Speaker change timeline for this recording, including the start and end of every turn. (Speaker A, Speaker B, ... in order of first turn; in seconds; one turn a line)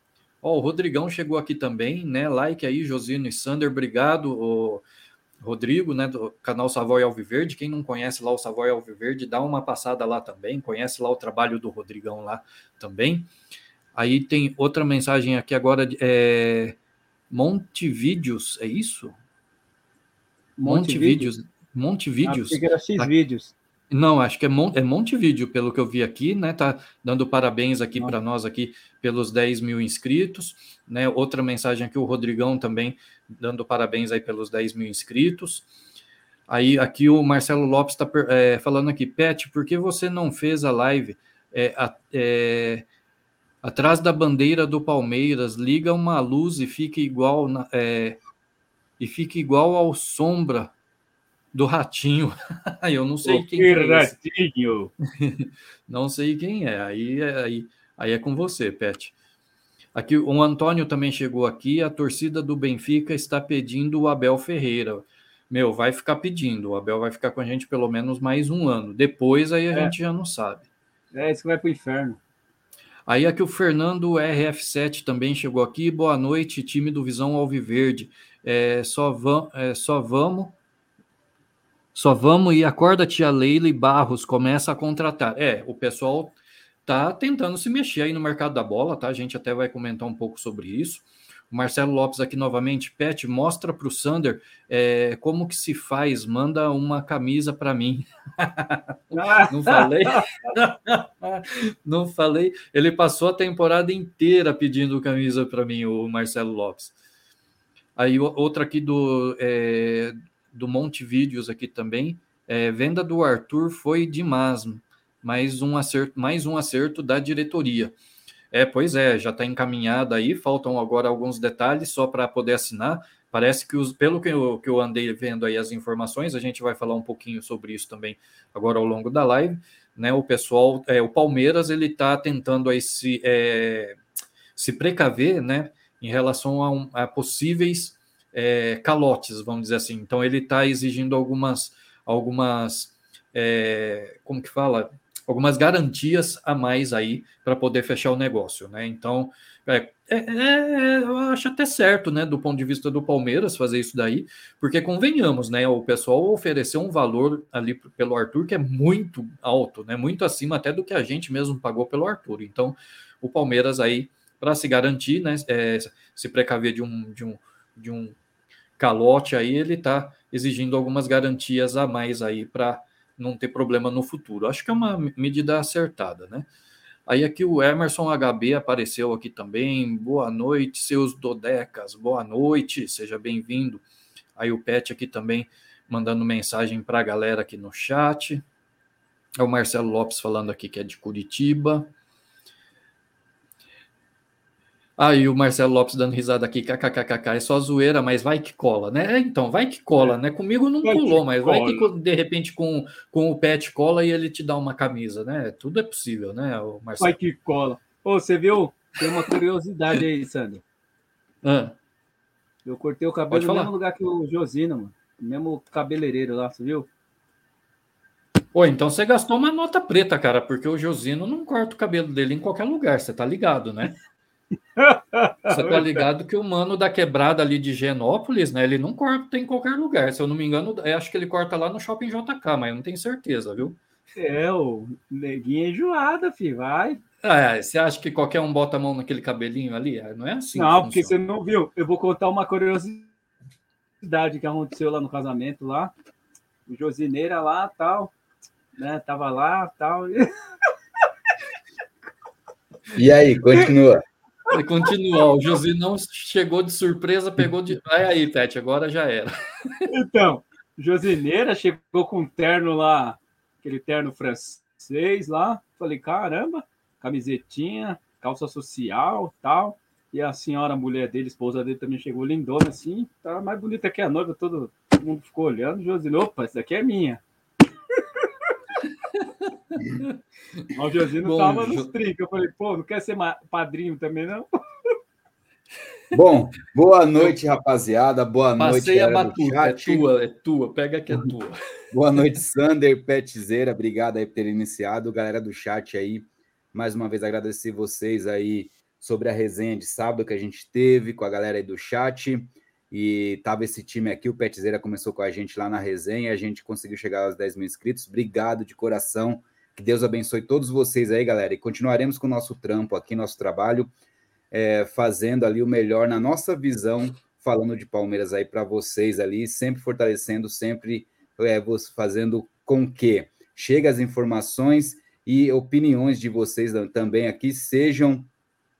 Speaker A: 0.4-4.8
Speaker A: 5.4-13.3
Speaker A: 13.9-16.8
Speaker A: 17.3-19.2
Speaker B: 20.6-21.3
Speaker A: 20.7-23.1
Speaker B: 22.2-23.5
Speaker A: 23.9-35.7
Speaker A: 36.5-42.9
Speaker A: 43.6-48.2
Speaker A: 49.0-50.7
Speaker A: 51.5-54.1
Speaker B: 53.2-54.9
Speaker A: 55.2-59.1
Speaker A: 60.0-70.7
Speaker B: 71.1-72.2
Speaker A: 73.1-80.6
Speaker A: 82.0-106.9
Speaker B: 99.1-100.5
Speaker A: 108.0-118.0
Speaker A: 118.5-134.0
Speaker A: 134.6-168.2
Speaker A: 168.8-176.5
Speaker A: 177.1-183.8
Speaker A: 184.4-188.4
Speaker A: 189.4-191.9
Speaker A: 195.0-207.2
Speaker B: 200.8-201.8
Speaker B: 207.0-210.6
Speaker A: 211.4-211.8
Speaker B: 212.7-216.9
Speaker A: 213.3-213.7
Speaker A: 218.5-224.0
Speaker B: 224.8-226.1
Speaker A: 225.5-233.8
Speaker B: 234.2-237.0
Speaker A: 237.2-241.2
Speaker B: 240.6-243.1
Speaker B: 244.0-245.9
Speaker B: 246.7-248.1
Speaker B: 248.8-250.3
Speaker C: 252.9-254.0
Speaker A: 254.5-259.9
Speaker B: 259.9-277.2
Speaker A: 279.8-280.7
Speaker B: 280.7-284.5
Speaker A: 281.2-281.9
Speaker C: 286.1-290.1
Speaker A: 288.6-291.6
Speaker C: 291.9-313.9
Speaker C: 314.5-328.3